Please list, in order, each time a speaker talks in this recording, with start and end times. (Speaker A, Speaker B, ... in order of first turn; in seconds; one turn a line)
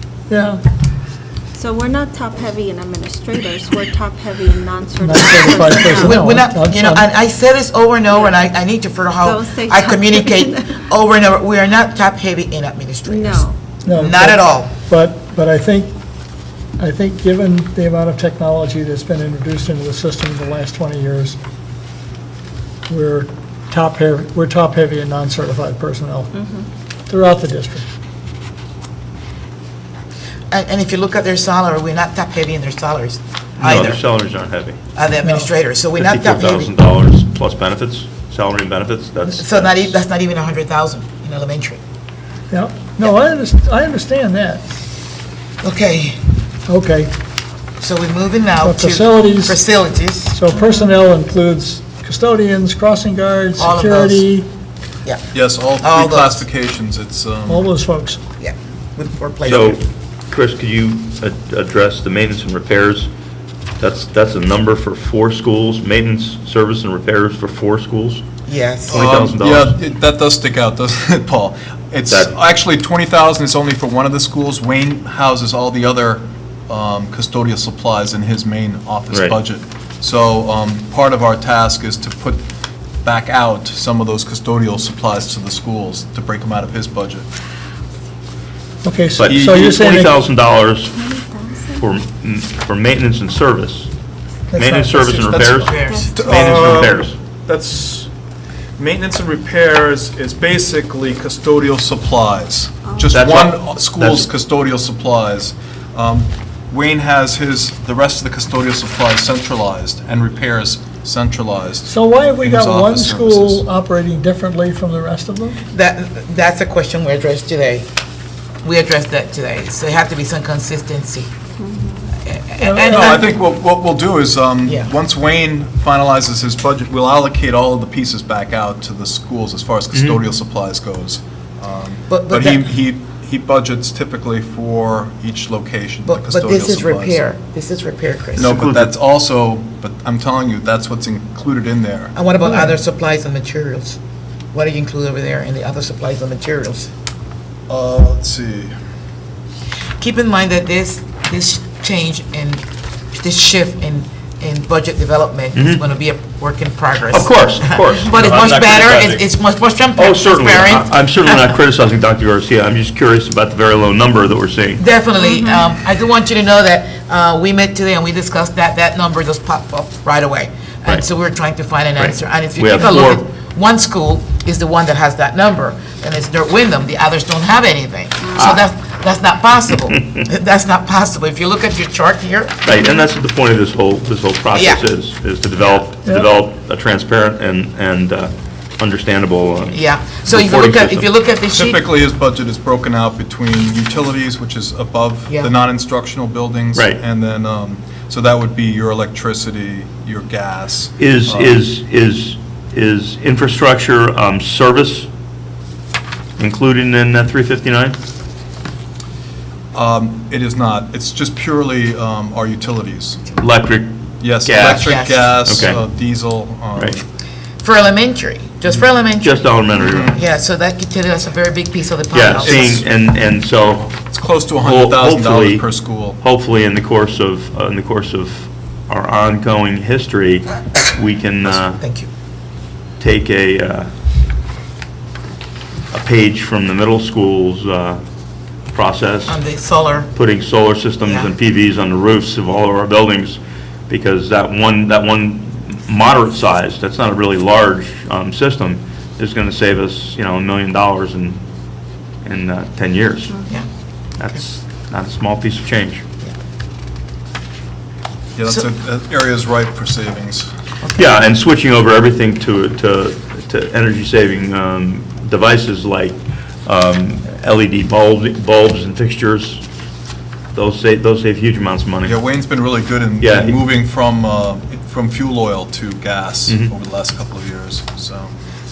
Speaker A: 0.3-0.6
Speaker B: 1.6-6.2
Speaker A: 5.0-7.0
Speaker C: 6.0-14.7
Speaker B: 9.2-10.9
Speaker B: 13.1-13.6
Speaker A: 13.8-15.9
Speaker A: 16.8-21.4
Speaker A: 22.9-26.3
Speaker B: 26.3-26.7
Speaker A: 27.1-27.9
Speaker C: 30.5-34.0
Speaker D: 33.6-34.8
Speaker C: 35.0-36.7
Speaker D: 36.0-40.0
Speaker C: 39.2-41.8
Speaker A: 42.5-44.7
Speaker C: 45.6-46.2
Speaker A: 46.7-47.1
Speaker C: 47.8-50.4
Speaker A: 48.6-49.6
Speaker A: 50.3-54.5
Speaker B: 50.5-50.9
Speaker C: 53.6-54.2
Speaker E: 55.3-57.7
Speaker C: 55.8-56.5
Speaker A: 57.5-58.2
Speaker C: 58.4-59.8
Speaker D: 59.4-63.1
Speaker D: 63.8-68.2
Speaker C: 68.5-69.0
Speaker D: 68.9-69.8
Speaker E: 68.9-82.5
Speaker D: 72.1-72.4
Speaker D: 79.1-79.4
Speaker E: 83.0-87.3
Speaker A: 88.8-90.2
Speaker D: 89.2-91.0
Speaker B: 90.9-91.8
Speaker D: 91.8-93.9
Speaker A: 94.5-95.1
Speaker D: 94.6-97.2
Speaker C: 95.1-96.2
Speaker B: 95.8-96.3
Speaker E: 96.2-98.1
Speaker E: 98.8-113.6
Speaker B: 102.8-103.1
Speaker D: 103.1-104.3
Speaker A: 111.9-115.6
Speaker C: 115.7-117.9
Speaker C: 118.6-121.3
Speaker B: 121.6-122.1
Speaker C: 122.2-123.0
Speaker A: 122.6-123.3
Speaker E: 122.9-137.2
Speaker D: 129.9-130.3
Speaker C: 132.1-132.6
Speaker C: 136.1-138.5
Speaker D: 138.4-139.0
Speaker E: 138.4-142.2
Speaker C: 142.2-144.0
Speaker C: 144.5-146.9
Speaker E: 147.7-148.8
Speaker C: 150.0-161.5
Speaker D: 155.5-155.8
Speaker D: 157.1-159.3
Speaker D: 160.0-164.8
Speaker C: 164.8-182.6
Speaker B: 165.2-165.6
Speaker D: 172.0-173.2
Speaker B: 178.2-178.5
Speaker D: 178.4-178.6
Speaker D: 182.6-191.1
Speaker C: 184.5-184.8
Speaker C: 189.7-191.8
Speaker E: 191.5-201.6
Speaker D: 196.7-197.0
Speaker D: 201.0-205.1
Speaker D: 206.4-208.0
Speaker E: 209.7-213.2
Speaker D: 213.3-215.8
Speaker E: 214.2-217.1
Speaker C: 214.8-215.3
Speaker D: 216.8-217.0
Speaker C: 217.6-219.4
Speaker D: 219.2-220.2
Speaker E: 219.7-220.2
Speaker C: 220.2-222.6
Speaker D: 222.1-231.8
Speaker E: 222.4-222.8
Speaker E: 224.1-226.2
Speaker C: 231.7-232.1
Speaker D: 233.0-233.9
Speaker D: 235.9-238.0
Speaker D: 238.7-239.4
Speaker C: 239.3-240.1
Speaker D: 240.1-251.4
Speaker C: 241.0-241.3
Speaker D: 252.2-253.4
Speaker D: 254.2-256.0
Speaker E: 258.4-260.5
Speaker C: 260.8-261.1
Speaker D: 260.9-269.6
Speaker D: 270.5-272.4
Speaker E: 272.1-278.3
Speaker D: 273.2-273.7
Speaker D: 276.5-276.7